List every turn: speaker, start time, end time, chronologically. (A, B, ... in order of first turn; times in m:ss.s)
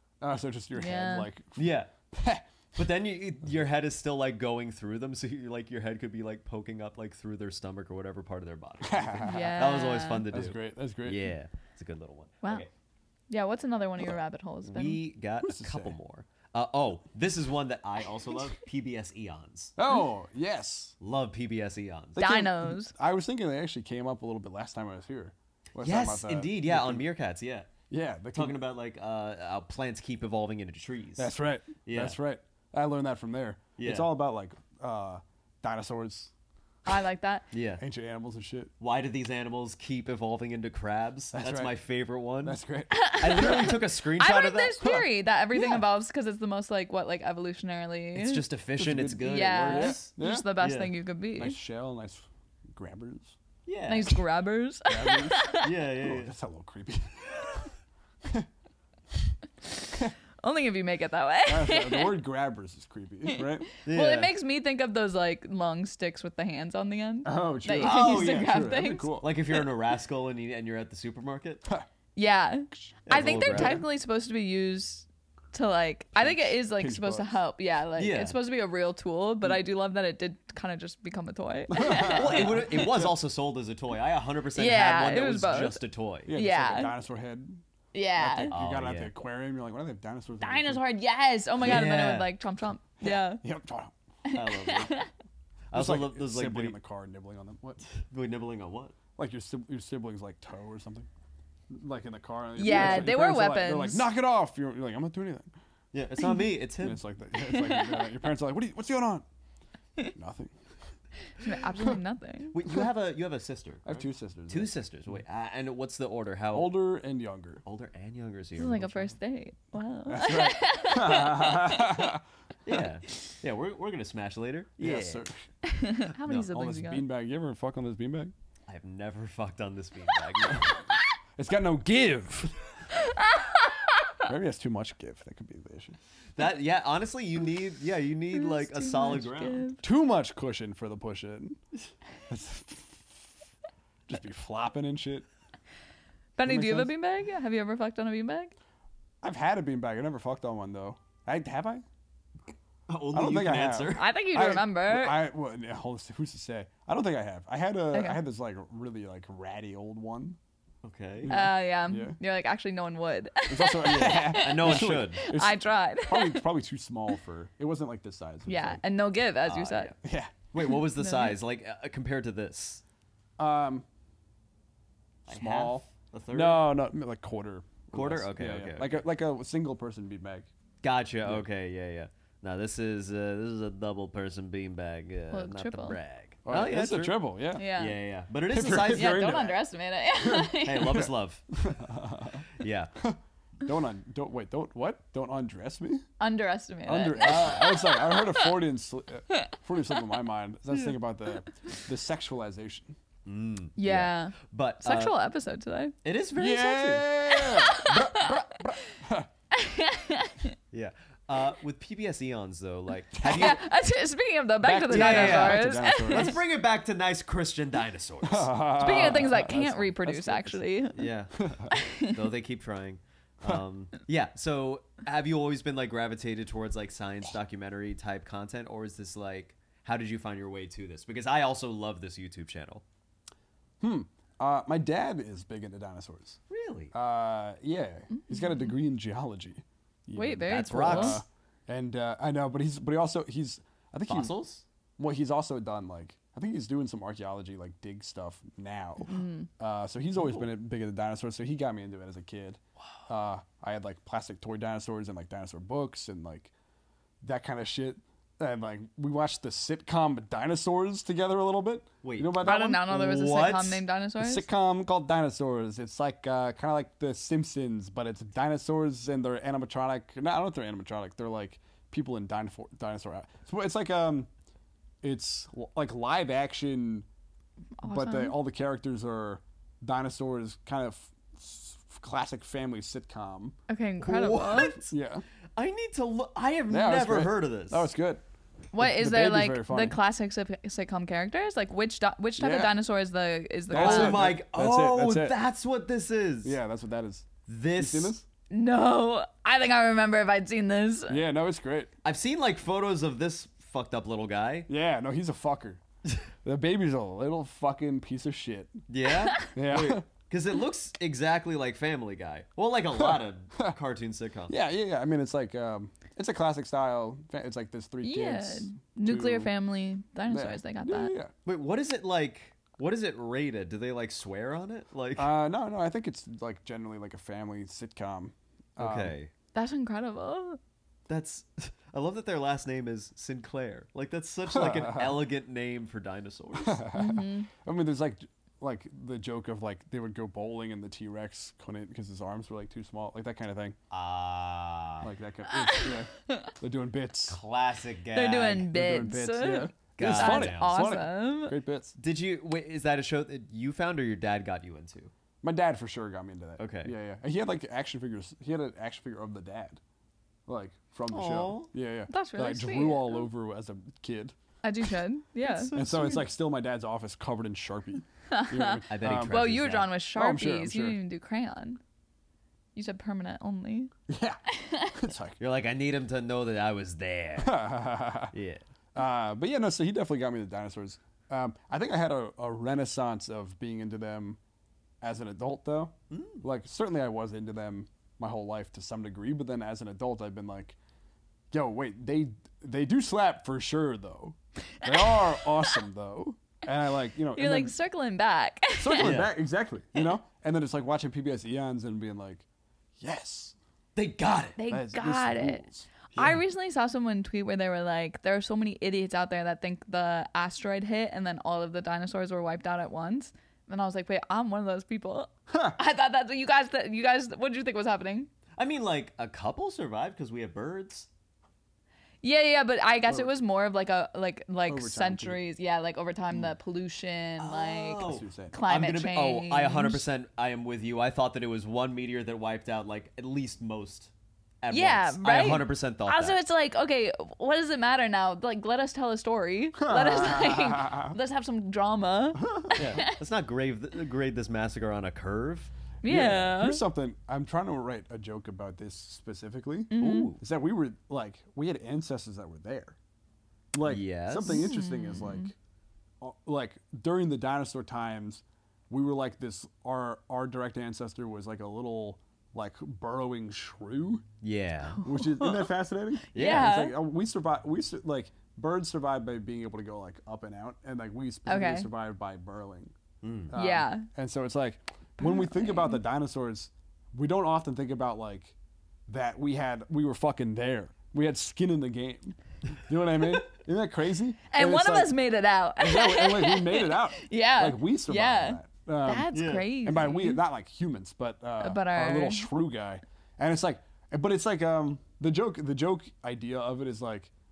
0:00.2-0:02.4 A
0:00.7-0:01.3 B
0:01.6-0:01.9 C
0:02.8-0:12.7 C
0:08.8-0:09.6 A
0:09.2-0:10.2 B
0:10.3-0:11.2 A
0:13.3-0:15.0 B
0:14.6-0:19.7 C
0:15.4-0:16.0 A
0:19.8-0:20.9 A
0:21.0-0:22.2 C
0:22.2-0:27.0 A
0:22.2-0:22.9 B
0:25.8-0:27.7 C
0:27.9-0:28.6 A
0:28.3-0:31.3 C
0:31.2-0:36.3 A
0:31.8-0:32.2 C
0:33.8-0:34.1 C
0:36.8-0:37.5 B
0:37.5-0:37.8 C
0:37.8-0:38.7 A
0:38.8-0:42.6 C
0:41.3-0:41.7 A
0:42.4-0:43.2 A
0:42.9-0:48.4 B
0:43.2-0:44.8 C
0:44.8-0:45.8 A
0:48.1-0:50.9 C
0:48.8-0:50.4 A
0:49.2-0:51.6 B
0:51.4-0:53.3 A
0:53.6-0:54.2 C
0:53.9-0:55.7 B
0:54.9-0:55.5 A
0:55.6-0:56.3 C
0:56.0-0:57.7 A
1:00.4-1:02.2 B
1:01.4-1:03.7 A
1:03.3-1:09.6 B
1:03.8-1:04.3 C
1:07.2-1:09.3 A
1:07.8-1:08.6 C
1:09.2-1:11.6 C
1:12.2-1:22.9 B
1:12.8-1:13.9 A
1:13.0-1:13.8 C
1:16.2-1:17.4 A
1:18.0-1:18.4 C
1:21.7-1:23.1 A
1:22.0-1:26.3 C
1:24.5-1:25.8 B
1:26.3-1:27.6 A
1:26.3-1:26.9 B
1:27.9-1:28.5 B
1:28.2-1:30.8 A
1:28.5-1:29.1 C
1:30.4-1:33.4 B
1:31.6-1:32.3 C
1:33.0-1:33.9 A
1:34.2-1:35.1 B
1:34.3-1:35.0 C
1:35.7-1:36.8 C
1:35.7-1:37.9 A
1:37.9-1:39.0 C
1:39.2-1:41.1 A
1:41.7-1:45.5 A
1:42.6-1:44.1 B
1:42.6-1:43.1 C
1:45.9-1:47.0 C
1:46.8-1:49.2 A
1:47.4-1:48.1 B
1:50.1-1:50.5 A
1:51.4-1:52.6 B
1:52.5-1:56.7 C
1:53.8-1:54.7 A
1:56.5-1:57.6 A
1:57.6-1:59.1 C
1:58.6-2:02.1 B
2:00.0-2:02.2 A
2:02.6-2:05.2 C
2:04.8-2:05.5 A
2:05.6-2:07.0 B
2:06.3-2:08.3 A
2:08.7-2:10.8 C
2:11.4-2:12.6 A
2:13.0-2:14.1 B
2:14.2-2:16.0 A
2:16.4-2:19.7 C
2:18.3-2:19.8 B
2:19.8-2:21.6 A
2:22.3-2:23.3 A
2:24.1-2:25.2 A
2:26.4-2:28.5 B
2:26.4-2:26.9 A
2:29.2-2:31.8 A
2:32.9-2:34.1 C
2:33.1-2:40.4 A
2:33.9-2:35.2 B
2:37.9-2:38.2 B
2:40.8-2:41.4 C
2:41.2-2:42.2 A
2:41.3-2:46.4 B
2:43.5-2:48.8 A
2:43.9-2:45.3 C
2:48.5-2:49.9 B
2:49.4-2:50.0 C
2:50.0-2:50.3 A
2:50.5-2:52.8 C
2:50.6-2:51.4 B
2:53.4-2:53.8 A
2:55.3-2:56.7 C
2:55.3-3:00.5 A
2:57.9-2:59.0 C
3:00.8-3:07.2 C
3:05.3-3:06.0 B
3:06.4-3:07.6 A
3:07.6-3:08.0 B
3:07.7-3:09.5 C
3:08.5-3:09.6 A
3:08.8-3:11.1 B
3:10.2-3:16.0 A
3:10.6-3:11.4 C
3:12.5-3:12.9 C
3:16.2-3:18.6 B
3:16.8-3:22.9 A
3:17.2-3:17.7 C
3:23.2-3:25.1 C
3:23.8-3:25.9 B
3:26.0-3:27.3 C
3:26.4-3:29.3 A
3:27.4-3:28.4 B
3:29.5-3:30.5 B
3:30.7-3:33.6 C
3:33.1-3:33.6 A
3:33.2-3:36.4 B
3:34.6-3:36.4 A
3:34.9-3:39.1 C
3:38.2-3:40.6 A
3:38.8-3:41.1 B
3:40.9-3:52.8 C
3:41.4-3:41.7 A
3:41.7-3:42.2 B
3:53.8-3:56.4 A
3:56.5-3:56.9 C
3:56.9-4:04.4 A
3:58.3-3:58.7 B
4:00.2-4:01.2 B
4:00.5-4:01.2 C
4:04.1-4:04.6 C
4:05.0-4:16.5 A
4:09.1-4:09.5 B
4:17.2-4:22.8 A
4:22.0-4:23.8 C
4:22.4-4:24.4 B
4:24.2-4:34.3 A
4:35.0-4:37.0 A
4:37.8-4:38.4 B
4:37.8-4:43.5 A
4:43.7-4:44.8 B
4:44.0-4:44.9 C
4:44.8-4:45.2 A
4:45.6-4:47.9 C
4:46.7-4:48.2 A
4:48.7-4:54.3 B
4:48.8-4:50.0 A
4:52.4-4:52.7 A
4:53.7-4:55.4 A
4:53.7-4:56.6 C
4:56.4-4:58.2 A
4:57.5-4:58.2 C
4:58.5-5:01.2 B
5:01.1-5:01.9 A
5:02.0-5:04.7 C
5:04.7-5:05.8 A
5:06.4-5:08.8 A
5:08.9-5:14.5 C
5:09.5-5:10.0 A
5:13.0-5:13.8 A
5:14.5-5:19.5 A
5:18.0-5:21.1 B
5:20.3-5:21.3 A
5:21.4-5:25.3 C
5:25.2-5:29.2 A
5:28.8-5:29.3 C
5:29.5-5:30.6 B
5:31.1-5:36.8 C
5:34.5-5:35.2 A
5:36.6-5:43.8 A
5:36.9-5:37.5 B
5:43.9-5:45.1 C
5:45.0-5:47.4 A
5:45.5-5:46.5 B
5:47.3-5:48.7 C
5:48.1-5:51.6 B
5:48.7-5:52.0 A
5:50.0-5:50.8 C
5:52.0-5:55.1 C
5:55.4-5:59.8 A
5:56.6-5:56.9 C
6:00.5-6:04.4 A
6:01.1-6:01.7 C
6:02.1-6:03.3 B
6:04.6-6:05.7 B
6:05.4-6:06.2 C
6:05.7-6:09.3 A
6:08.3-6:11.8 B
6:08.9-6:09.9 C
6:10.1-6:11.0 A
6:12.7-6:13.9 B
6:14.1-6:15.4 A
6:14.5-6:15.0 B
6:15.4-6:17.6 C
6:17.4-6:18.3 A
6:18.3-6:18.6 C
6:18.9-6:24.4 A
6:25.0-6:30.8 A
6:26.1-6:26.4 C
6:31.5-6:37.7 A
6:34.8-6:35.8 B
6:37.3-6:39.2 B
6:38.8-6:42.4 A
6:39.0-6:39.3 C
6:43.0-6:43.6 A
6:44.0-6:44.6 C
6:44.6-6:45.6 B
6:44.7-6:45.9 A
6:46.1-6:58.3 B
6:55.5-6:55.8 A
6:58.5-7:01.1 C
7:02.2-7:10.0 B
7:04.7-7:05.4 A
7:07.4-7:16.4 C
7:08.0-7:08.6 A
7:14.7-7:23.2 B
7:19.8-7:21.1 A
7:22.4-7:22.8 A
7:22.7-7:26.4 C
7:26.0-7:26.8 B
7:26.0-7:33.0 A
7:29.9-7:30.3 B
7:30.0-7:30.4 C
7:33.7-7:35.5 A
7:33.8-7:34.7 C
7:34.4-7:35.5 B
7:36.2-7:44.2 A
7:44.4-7:45.0 C
7:45.0-7:45.6 B
7:45.0-7:52.9 A
7:46.3-7:47.0 B
7:46.3-7:46.7 C
7:51.5-7:51.9 B
7:53.2-7:53.5 C
7:53.5-7:58.5 A
7:53.5-7:54.1 B
7:55.2-7:56.0 B
7:59.1-8:05.1 A
8:04.5-8:10.4 B
8:05.8-8:09.3 A
8:09.3-8:09.7 C
8:09.8-8:17.3 A
8:11.6-8:12.5 B